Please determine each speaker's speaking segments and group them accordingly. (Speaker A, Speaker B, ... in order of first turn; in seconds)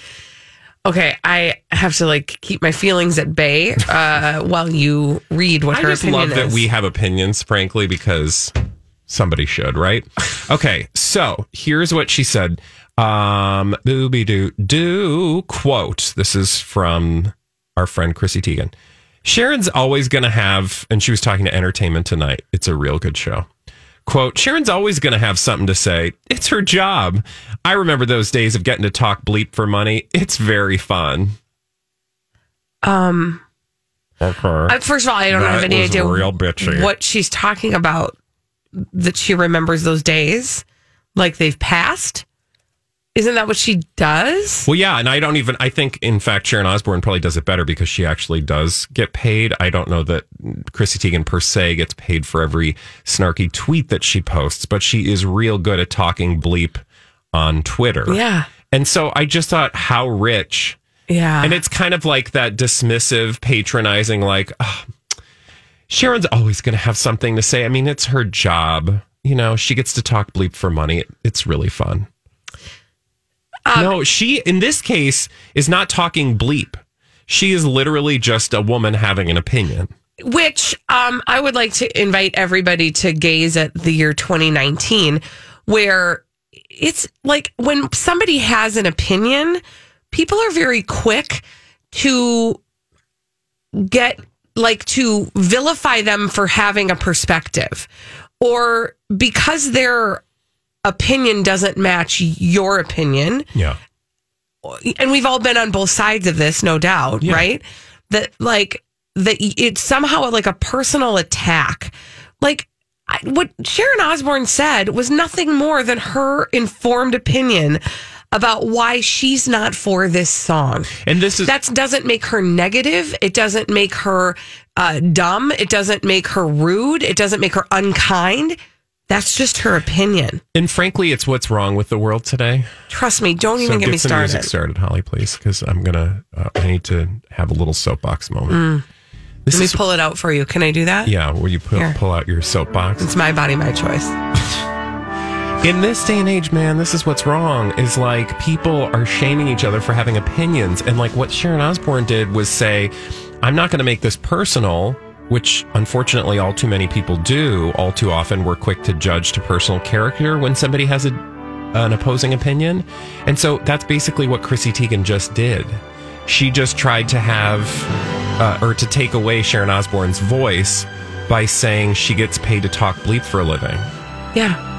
Speaker A: 0.8-6.6, 32.8-33.4, 34.7-38.1, 38.8-40.6, 41.1-42.2, 43.1-44.7, 58.1-58.5, 61.1-61.6, 73.7-73.9, 80.2-92.6, 93.7-97.9, 98.4-100.2, 100.8-103.5, 104.6-117.8, 118.3-128.6, 129.1-130.4, 132.9-134.5, 138.5-138.8, 139.5-141.1, 143.0-144.2, 174.3-174.6
Speaker B: 5.7-8.5, 9.1-18.7, 19.2-23.5, 24.1-31.4, 34.2-34.8, 35.3-36.9, 44.6-56.8, 57.3-60.8, 61.4-64.9, 65.9-72.1, 73.7-79.9, 107.2-107.5, 121.0-121.5, 130.5-132.7, 133.6-138.6, 139.4-139.8, 141.0-143.1, 145.6-161.2, 161.7-173.8